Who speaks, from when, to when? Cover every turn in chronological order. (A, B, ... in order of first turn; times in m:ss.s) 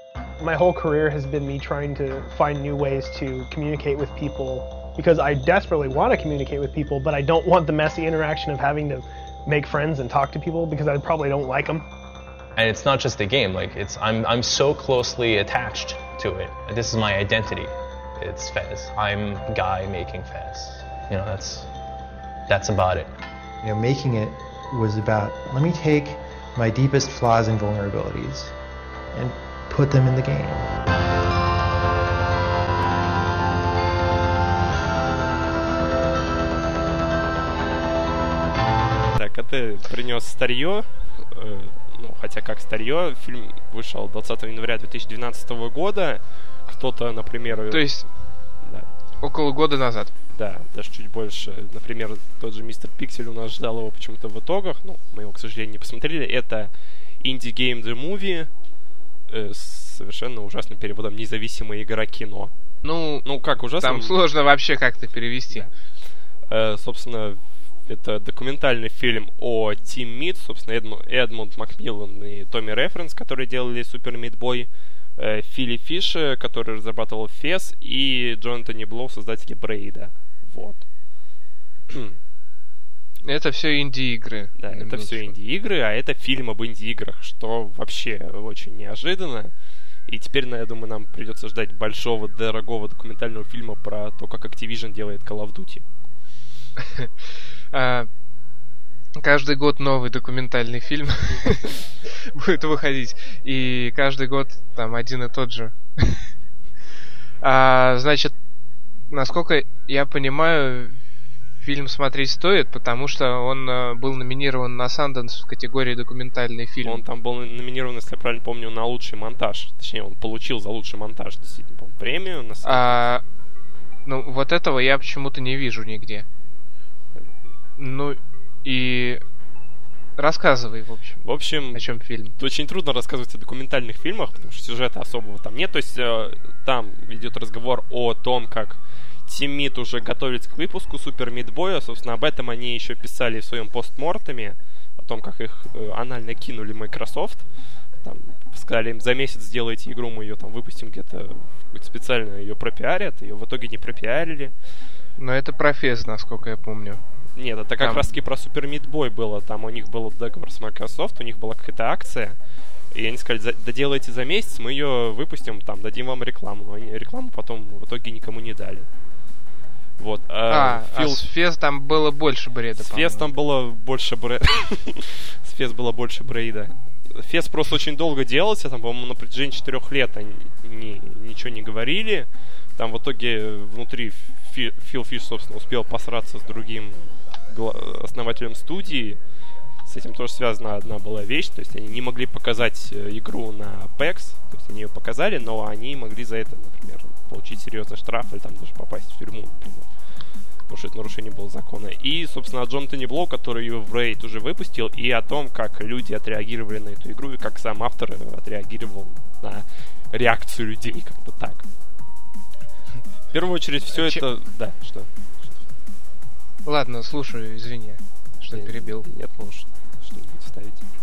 0:00.4-0:11.8 A
0:12.6-0:21.7 B
0:22.5-0:23.1 B
0:23.6-0:28.5 C
0:29.1-0:30.8 C
0:39.1-0:48.0 D
0:47.7-0:48.1 E
0:48.6-0:48.9 D
0:49.2-0:50.1 E
0:50.3-0:58.5 D
0:59.3-1:02.5 D
1:02.8-1:03.2 E
1:03.2-1:04.2 D
1:03.8-1:05.7 E
1:06.5-1:20.8 D
1:21.9-1:22.2 D
1:23.2-1:25.3 E
1:24.6-1:29.5 D
1:30.1-1:35.8 D
1:36.8-1:37.1 E
1:37.7-1:38.1 E
1:39.2-1:46.2 E
1:47.4-1:48.3 E
1:49.1-1:51.0 E
1:51.6-1:57.0 E
1:56.8-2:03.0 D
2:02.6-2:03.2 E
2:04.0-2:06.3 E
2:07.8-2:09.2 E
2:10.2-2:11.2 E
2:11.2-2:27.4 D
2:11.7-2:12.4 E
2:28.0-2:34.5 D
2:35.2-2:37.0 E
2:37.3-2:42.4 D
2:37.8-2:38.1 E
2:42.9-2:48.9 D
2:50.0-2:51.2 D
2:50.5-2:53.3 E
2:52.7-3:09.2 D
3:09.8-3:19.9 D
3:20.7-3:31.6 D
3:33.3-3:35.6 D
3:33.9-3:34.2 E
3:36.6-3:39.1 E
3:38.5-3:40.8 D